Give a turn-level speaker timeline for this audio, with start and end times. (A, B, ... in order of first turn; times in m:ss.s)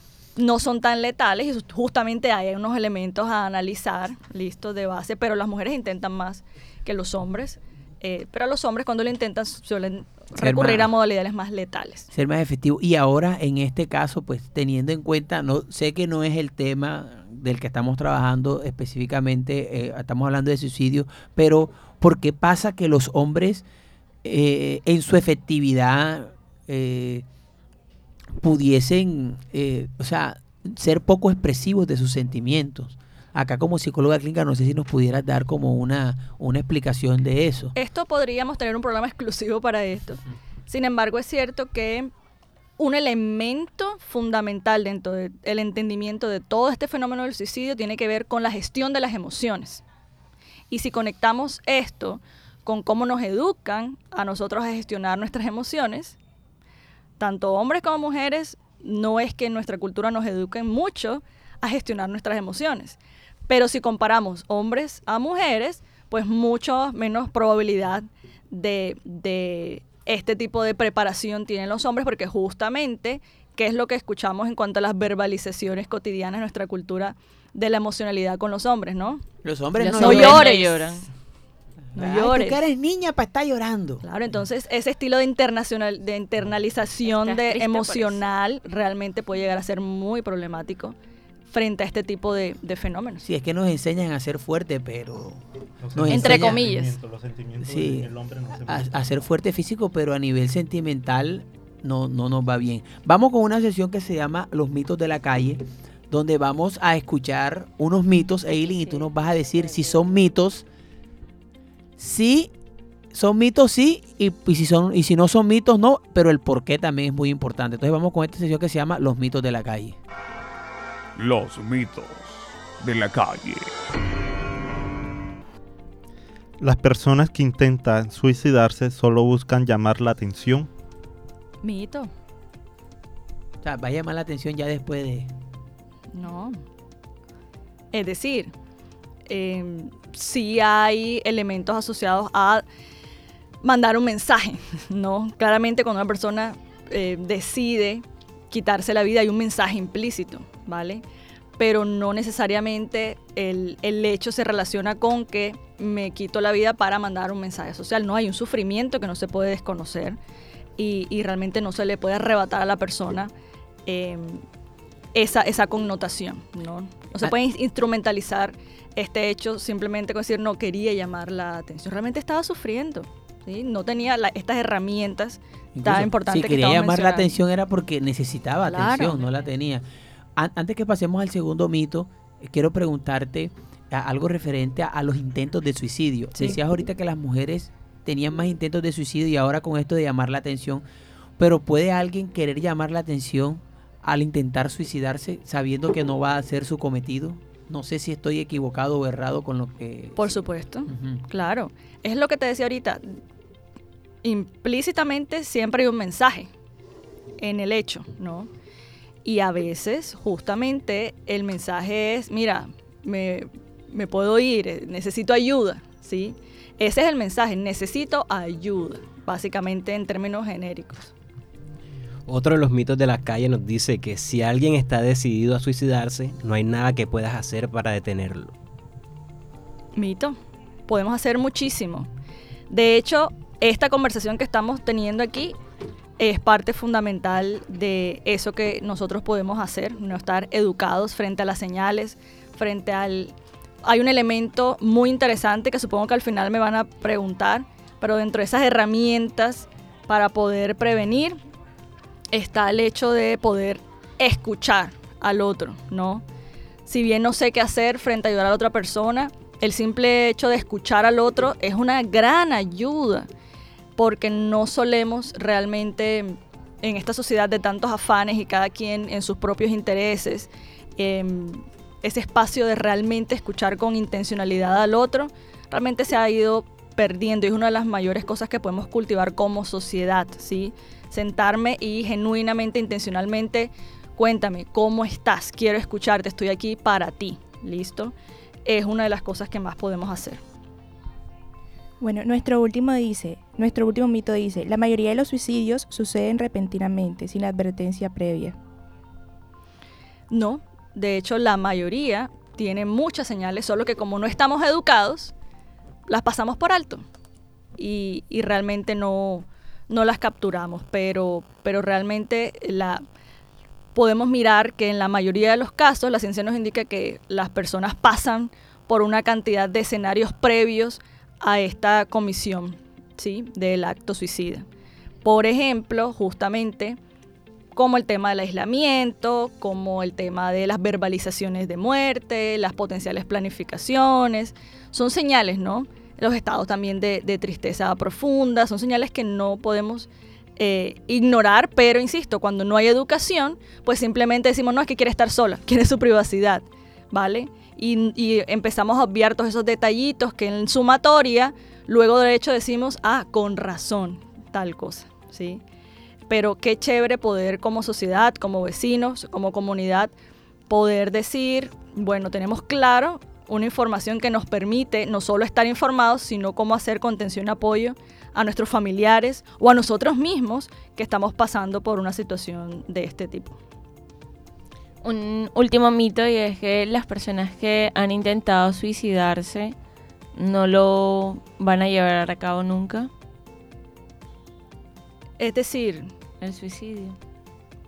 0:00.4-0:12.1 A
0:10.4-0:10.9 B
0:12.1-0:23.6 B
0:24.2-0:27.2 B
0:28.4-0:37.8 B
0:37.8-0:42.1 A
0:42.8-0:49.8 A
0:50.7-0:56.2 A
0:57.2-1:19.2 A
1:19.4-1:20.5 B
1:19.8-1:21.1 C
1:19.8-1:21.0 A
1:21.9-1:24.0 B
1:22.0-1:22.6 A
1:24.0-1:31.0 A
1:27.0-1:28.2 C
1:31.5-1:33.2 A
1:33.2-1:35.4 B
1:35.8-1:39.2 D
1:35.9-1:36.7 B
1:36.1-1:37.0 A
1:37.6-1:38.1 B
1:38.6-1:50.6 B
1:52.0-1:52.5 B
1:53.1-2:00.0 B
2:01.2-2:03.7 E
2:06.6-2:10.7 D
2:11.6-2:12.1 A
2:13.6-2:15.3 B
2:16.1-2:16.6 A
2:17.9-2:18.5 A
2:19.3-2:22.6 A
2:23.6-2:31.0 A
2:31.6-2:40.2 A
2:40.8-2:43.3 A
2:43.8-2:44.4 A
2:45.1-2:57.3 A
2:55.7-2:59.8 B
2:58.6-2:59.2 A
3:00.4-3:10.8 B
3:11.4-3:20.4 B
3:20.2-3:23.2 A
3:20.9-3:21.2 B
3:24.2-3:26.5 A
3:27.4-3:28.5 A
3:29.2-3:41.1 A
3:42.3-3:48.5 F
3:50.0-3:52.1 A
3:52.7-3:55.6 A
3:56.2-4:11.4 A
4:12.3-4:16.2 A
4:16.8-4:23.3 A
4:24.0-4:50.4 A
4:52.0-4:58.6 G
5:00.3-5:05.3 A
5:06.1-5:07.0 A
5:07.8-5:13.0 A
5:13.9-5:24.7 A
5:25.2-5:27.0 A
5:27.7-5:55.6 A
5:56.3-6:00.1 A
6:00.7-6:13.6 A
6:15.0-6:19.8 C
6:20.4-6:23.1 C
6:25.4-6:26.1 A
6:26.4-6:27.2 C